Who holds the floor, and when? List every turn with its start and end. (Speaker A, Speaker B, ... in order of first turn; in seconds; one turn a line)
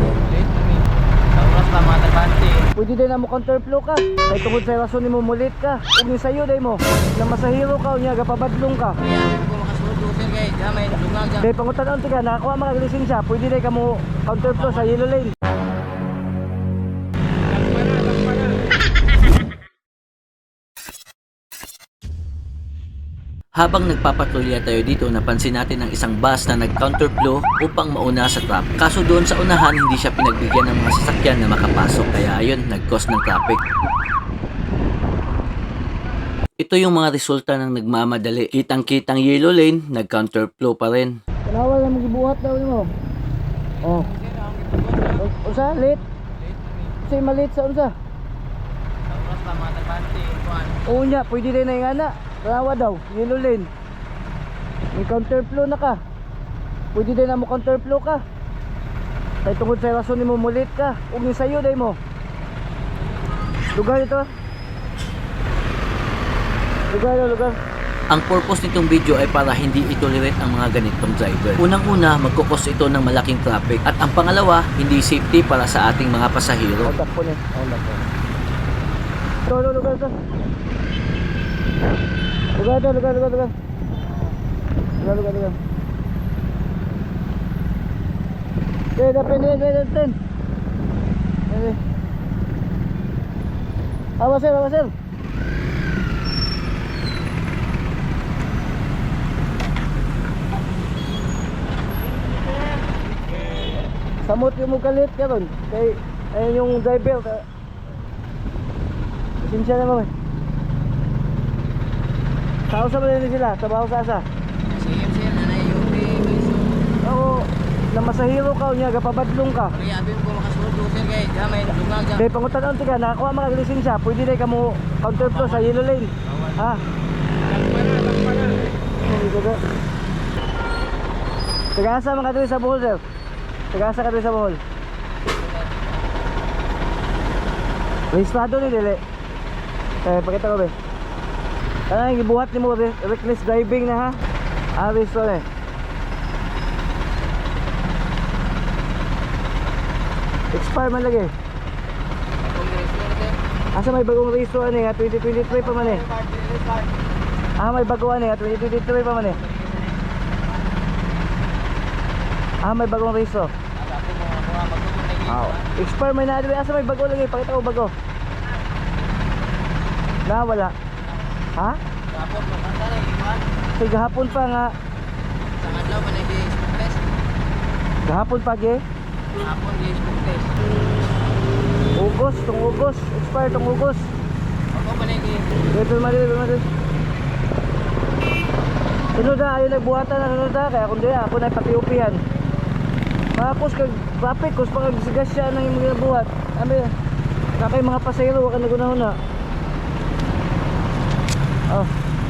Speaker A: 0.2-2.7
Speaker B: 2.8-9.0
Speaker A: 9.0-11.5
Speaker B: 11.4-15.3
Speaker A: 14.4-14.9
Speaker C: 23.6-33.6
Speaker C: 36.6-41.2
Speaker B: 41.5-42.9
Speaker B: 43.8-44.1
Speaker A: 43.8-45.3
Speaker B: 45.2-46.0
Speaker B: 47.0-47.9
Speaker A: 49.1-51.2
Speaker B: 50.9-53.7
Speaker B: 55.0-56.0
Speaker B: 56.9-58.2
Speaker B: 59.4-62.0
Speaker B: 63.8-64.3
Speaker B: 66.9-67.6
Speaker C: 68.1-76.9
Speaker B: 76.8-78.0
Speaker B: 79.5-80.1
Speaker B: 82.6-83.5
Speaker B: 85.0-85.6
Speaker B: 89.0-90.2
Speaker B: 91.5-91.8
Speaker B: 94.2-94.9
Speaker B: 104.2-107.4
Speaker B: 109.4-110.1
Speaker B: 112.7-114.3
Speaker A: 114.7-116.8
Speaker B: 117.0-119.8
Speaker A: 119.7-122.2
Speaker B: 122.2-126.8
Speaker A: 125.2-125.7
Speaker A: 126.3-126.6
Speaker A: 127.5-128.4
Speaker B: 129.0-129.6
Speaker B: 131.8-133.0
Speaker B: 133.7-134.6
Speaker A: 135.4-135.9
Speaker B: 138.1-139.0
Speaker B: 140.1-140.7
Speaker B: 141.9-144.2
Speaker B: 144.8-145.4
Speaker B: 150.5-151.3
Speaker A: 152.4-153.4
Speaker B: 153.8-156.0
Speaker A: 155.5-156.9
Speaker B: 157.6-159.4
Speaker A: 159.3-159.9
Speaker B: 162.6-163.5
Speaker A: 163.8-165.7
Speaker B: 165.3-167.9
Speaker B: 170.3-170.7
Speaker A: 172.1-173.4
Speaker B: 173.8-174.7
Speaker A: 175.6-177.0
Speaker B: 178.1-178.8
Speaker A: 179.4-180.6
Speaker B: 182.0-184.1
Speaker A: 184.7-185.5
Speaker B: 185.7-186.7
Speaker B: 189.2-192.2
Speaker B: 193.3-196.9
Speaker B: 197.6-199.1